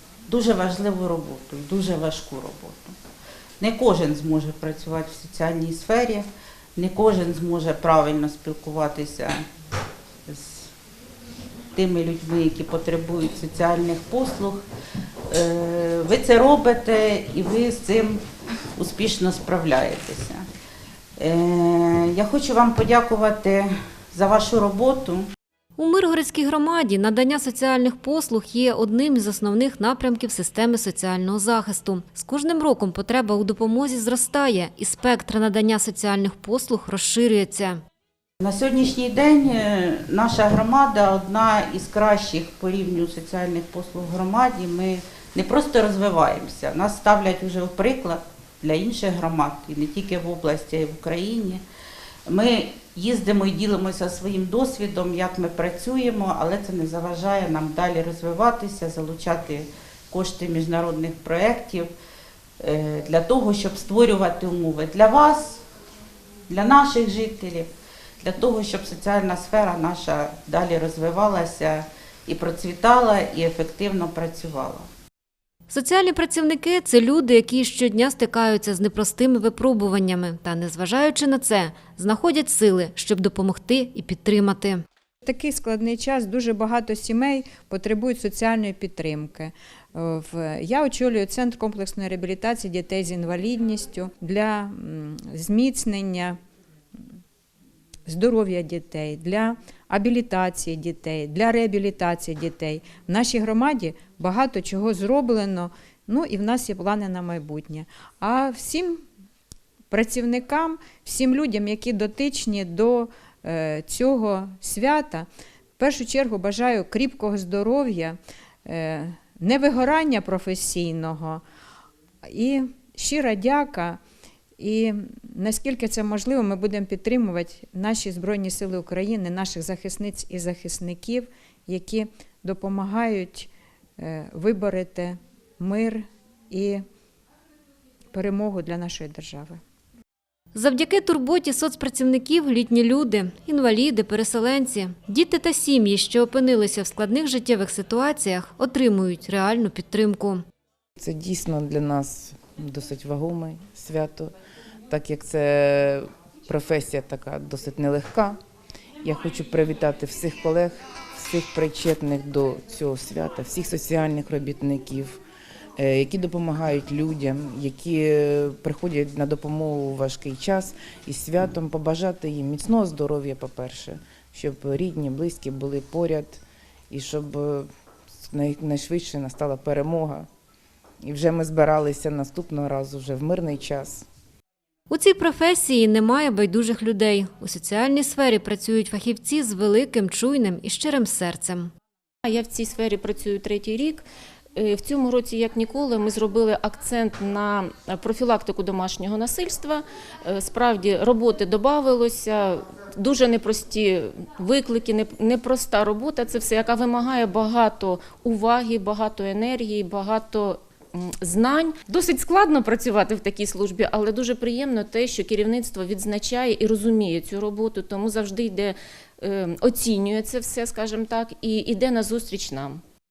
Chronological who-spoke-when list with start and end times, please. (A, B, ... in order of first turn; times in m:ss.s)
0:00.3-0:02.9 A
0:03.6-0:09.4 A
0:10.3-0:10.7 A
0:11.8-0:14.6 A
0:15.3-0:18.2 A
0:18.8-0:20.4 A
0:21.2-0:25.3 A
0:25.8-0:37.8 B
0:38.4-0:51.6 A
0:52.3-1:01.9 A
1:02.6-1:05.6 A
1:06.5-1:07.7 A
1:08.2-1:14.9 A
1:15.7-1:24.8 B
1:25.2-1:36.4 C
1:38.1-1:49.0 C
1:49.9-1:55.3 C
1:55.8-2:01.4 C
2:02.2-2:04.0 C
2:04.6-2:16.8 C
2:18.1-2:19.6 C
2:20.6-2:30.4 B
2:31.0-2:34.3 D
2:34.9-2:38.4 D
2:39.0-2:45.2 D
2:45.8-3:00.3 D
3:01.0-3:04.1 D
3:04.9-3:11.7 B
3:12.2-3:42.8 E